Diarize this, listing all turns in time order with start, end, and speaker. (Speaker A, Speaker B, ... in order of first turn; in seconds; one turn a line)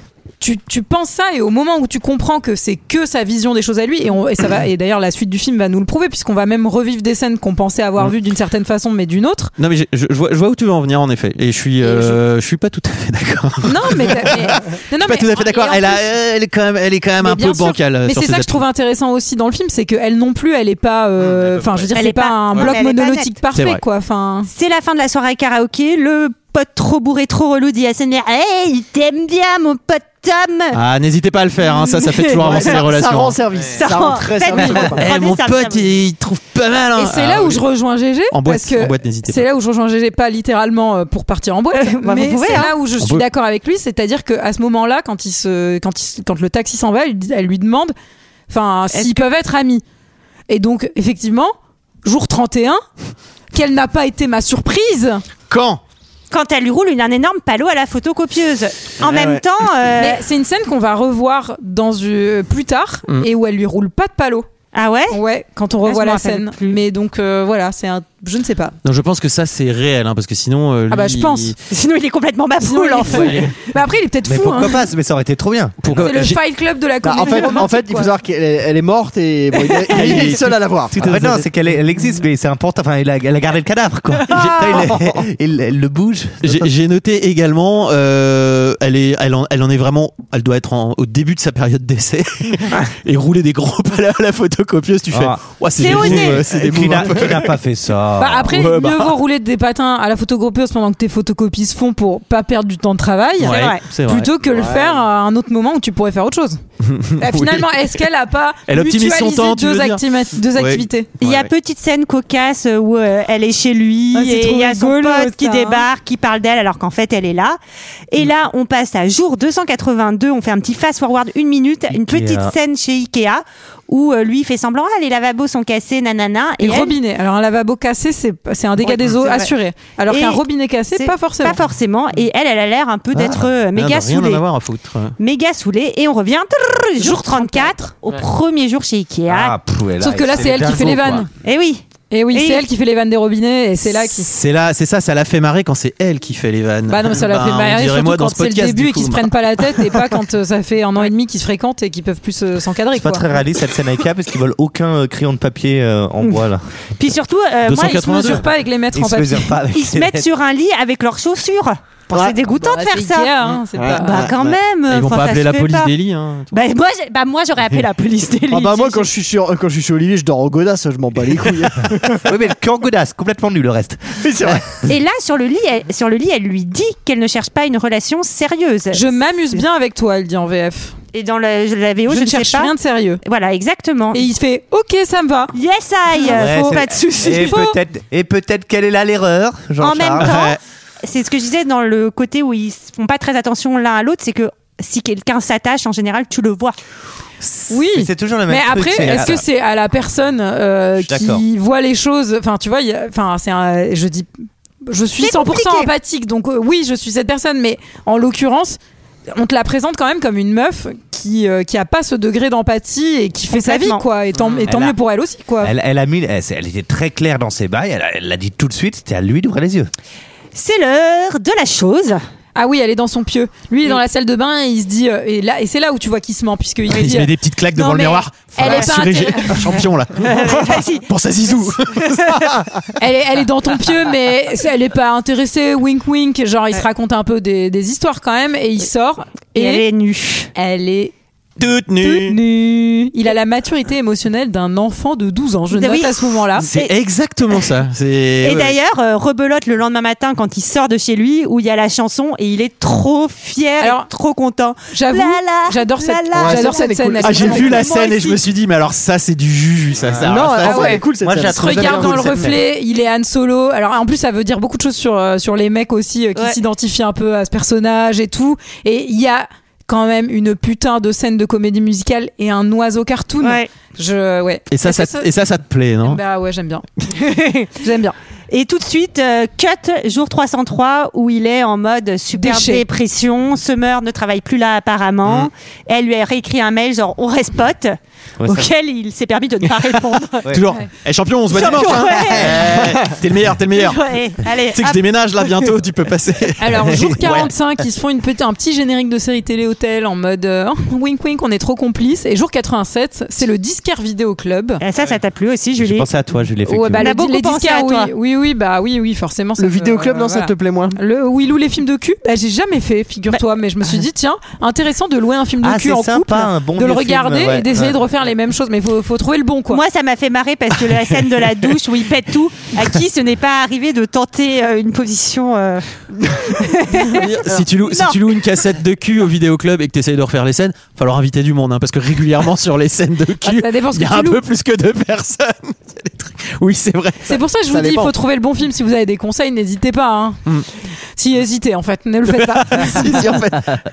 Speaker A: 0.4-9.5
Speaker B: 9.6-18.6
Speaker A: 11.8-12.2
Speaker A: 13.6-16.1
Speaker A: 17.2-24.5
Speaker B: 21.2-21.9
Speaker C: 21.9-23.3
Speaker B: 23.5-23.8
Speaker C: 24.5-30.8
Speaker B: 30.7-33.4
Speaker C: 31.6-32.9
Speaker D: 32.4-35.1
Speaker C: 33.8-35.9
Speaker B: 34.7-37.7
Speaker A: 37.0-47.9
Speaker B: 38.3-39.4
Speaker C: 41.7-42.8
Speaker A: 48.5-49.8
Speaker C: 48.9-49.2
Speaker A: 50.5-52.8
Speaker A: 53.5-55.2
Speaker B: 55.5-55.8
Speaker C: 56.3-60.2
Speaker A: 60.0-64.5
Speaker C: 64.7-65.2
Speaker A: 65.1-68.8
Speaker C: 65.8-66.8
Speaker B: 68.8-71.6
Speaker A: 70.9-71.5
Speaker C: 71.7-73.5
Speaker A: 72.6-74.8
Speaker B: 73.1-73.5
Speaker E: 74.3-75.8
Speaker B: 75.8-76.4
Speaker A: 75.9-78.1
Speaker D: 77.0-81.2
Speaker B: 79.9-81.5
Speaker E: 80.9-86.7
Speaker B: 84.3-85.0
Speaker B: 86.4-97.5
Speaker E: 95.1-98.5
Speaker A: 95.8-96.3
Speaker D: 96.5-97.4
Speaker A: 98.2-106.6
Speaker B: 98.5-99.2
Speaker C: 103.4-103.8
Speaker B: 103.4-104.3
Speaker D: 104.5-105.0
Speaker B: 106.8-108.0
Speaker A: 107.2-111.1
Speaker B: 108.7-111.5
Speaker C: 111.2-117.6
Speaker A: 114.1-115.9
Speaker C: 118.1-127.0
Speaker E: 121.9-122.5
Speaker A: 126.6-131.6
Speaker C: 128.8-129.5
Speaker C: 130.1-130.4
Speaker C: 130.9-134.4
Speaker B: 133.2-135.2
Speaker C: 135.2-139.6
Speaker A: 137.0-137.8
Speaker E: 139.3-141.3
Speaker A: 140.0-141.3
Speaker C: 141.4-142.6
Speaker A: 142.1-144.3
Speaker B: 144.0-149.3
Speaker A: 146.9-153.2
Speaker E: 152.9-156.7
Speaker C: 157.0-158.5
Speaker B: 157.6-158.5
Speaker A: 157.8-159.6
Speaker E: 158.9-160.3
Speaker C: 159.7-163.3
Speaker D: 162.1-162.4
Speaker A: 162.5-164.3
Speaker D: 163.8-164.4
Speaker C: 164.0-165.9
Speaker B: 164.9-166.6
Speaker C: 166.5-169.1
Speaker D: 168.5-172.2
Speaker E: 172.2-174.6
Speaker D: 174.2-174.7
Speaker C: 174.9-179.1
Speaker A: 178.9-180.9
Speaker C: 181.1-184.3
Speaker A: 182.1-183.2
Speaker A: 184.1-185.6
Speaker C: 185.5-187.7
Speaker A: 186.2-187.8
Speaker E: 186.3-190.4
Speaker C: 189.8-196.8
Speaker B: 190.2-190.6
Speaker A: 197.7-204.3
Speaker E: 197.7-199.4
Speaker E: 201.0-201.4
Speaker A: 204.9-208.8
Speaker C: 205.2-205.9
Speaker A: 209.3-215.7
Speaker C: 213.5-214.7
Speaker E: 214.7-215.0
Speaker E: 215.6-219.9
Speaker C: 220.5-222.2
Speaker A: 222.6-229.8
Speaker B: 226.9-232.4
Speaker C: 228.6-229.4
Speaker C: 230.2-231.1
Speaker A: 233.0-239.9
Speaker C: 239.6-240.5
Speaker A: 240.6-241.1
Speaker B: 241.6-242.4
Speaker A: 242.0-246.7
Speaker C: 245.7-246.9
Speaker B: 246.6-248.8
Speaker C: 248.4-258.4
Speaker A: 253.8-254.1
Speaker A: 254.9-257.9
Speaker D: 256.3-257.7
Speaker B: 257.2-261.0
Speaker D: 260.2-262.5
Speaker E: 260.2-262.5
Speaker A: 260.6-275.3
Speaker C: 273.4-273.7
Speaker B: 274.7-276.2
Speaker A: 276.0-276.9
Speaker C: 277.1-277.7
Speaker A: 277.8-278.2
Speaker C: 278.5-290.6
Speaker A: 282.3-282.9
Speaker E: 288.4-288.7
Speaker B: 290.5-294.0
Speaker C: 291.5-292.8
Speaker E: 292.1-292.8
Speaker C: 293.7-295.0
Speaker B: 294.7-297.5
Speaker A: 296.6-304.8
Speaker E: 296.8-297.4
Speaker C: 304.8-306.1
Speaker E: 305.8-307.1
Speaker A: 306.7-319.8
Speaker C: 307.0-308.1
Speaker D: 309.6-311.0
Speaker E: 315.6-318.0
Speaker C: 319.7-328.2
Speaker B: 327.1-337.4
Speaker A: 333.4-334.4
Speaker A: 337.3-340.4
Speaker D: 337.7-338.1
Speaker A: 341.2-343.2
Speaker B: 342.3-343.0
Speaker D: 342.9-343.7